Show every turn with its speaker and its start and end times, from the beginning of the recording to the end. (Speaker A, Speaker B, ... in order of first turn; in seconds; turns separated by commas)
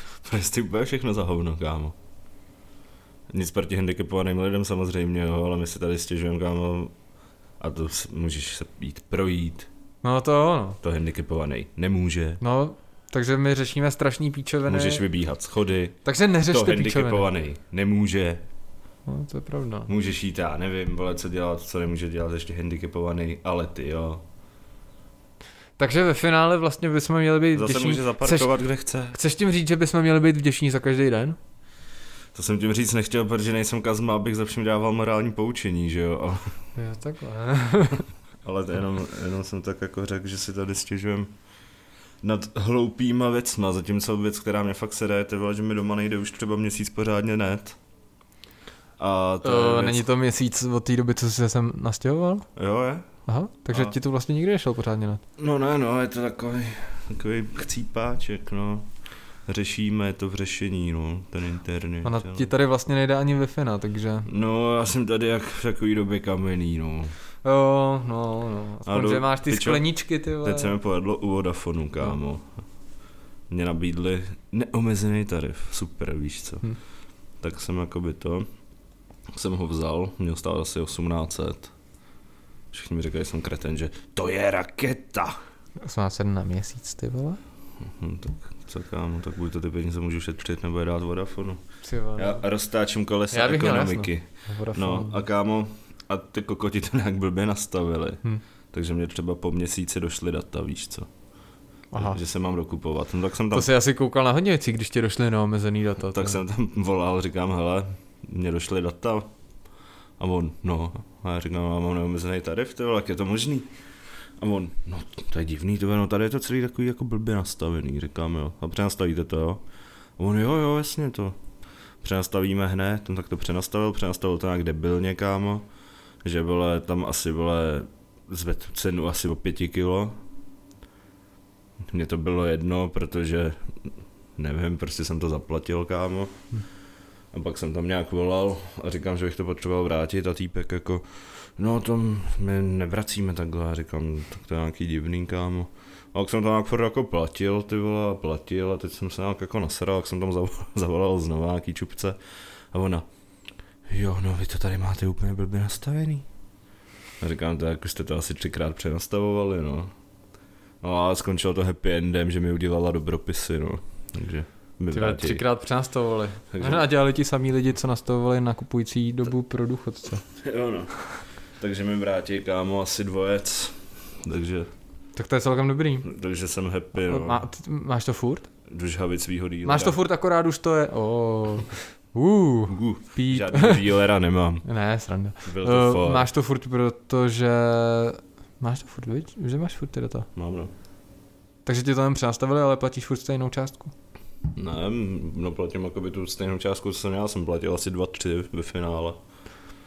Speaker A: 0.2-1.9, Speaker A: 3.3-6.9, Speaker A: 7.6-9.7, Speaker B: 10.0-10.8, Speaker A: 10.8-12.4, Speaker B: 12.4-15.0, Speaker A: 14.7-18.4, Speaker B: 16.1-17.3, Speaker B: 19.1-19.9, Speaker A: 19.9-24.2, Speaker B: 25.8-28.5, Speaker A: 27.5-29.2, Speaker B: 29.1-31.4, Speaker A: 32.4-36.5, Speaker B: 36.8-38.1, Speaker A: 38.4-41.3, Speaker A: 42.2-47.8, Speaker A: 49.0-50.1, Speaker B: 49.4-52.5, Speaker A: 52.6-53.1, Speaker B: 53.3-55.2, Speaker A: 55.4-58.9, Speaker A: 59.5-62.5, Speaker B: 62.0-64.3, Speaker A: 64.3-67.1, Speaker B: 67.4-70.7, Speaker A: 68.9-69.9, Speaker A: 70.4-72.5, Speaker A: 73.5-76.7, Speaker A: 77.4-78.5, Speaker A: 79.3-81.7, Speaker A: 82.7-85.4, Speaker B: 85.8-87.4, Speaker A: 88.0-91.6, Speaker B: 91.8-92.4, Speaker A: 92.2-101.1, Speaker B: 93.3-95.2, Speaker B: 101.9-102.2, Speaker A: 102.0-103.7, Speaker B: 103.5-106.4, Speaker A: 106.1-109.3, Speaker A: 110.2-113.7, Speaker A: 114.4-119.6, Speaker A: 120.2-121.4, Speaker A: 122.0-125.7, Speaker A: 126.2-130.2, Speaker A: 131.9-136.4, Speaker A: 137.3-152.2, Speaker A: 152.7-153.1, Speaker A: 153.9-156.3, Speaker A: 157.2-159.9, Speaker A: 160.8-165.4, Speaker B: 164.9-170.2, Speaker A: 166.5-166.8, Speaker A: 170.4-174.7, Speaker B: 175.2-176.1, Speaker A: 176.1-177.5, Speaker B: 177.0-178.5, Speaker A: 178.7-180.0, Speaker B: 179.6-183.9, Speaker A: 182.7-184.7, Speaker B: 184.6-190.3, Speaker A: 185.4-186.3, Speaker A: 190.3-190.7, Speaker B: 191.7-193.9, Speaker A: 194.5-199.2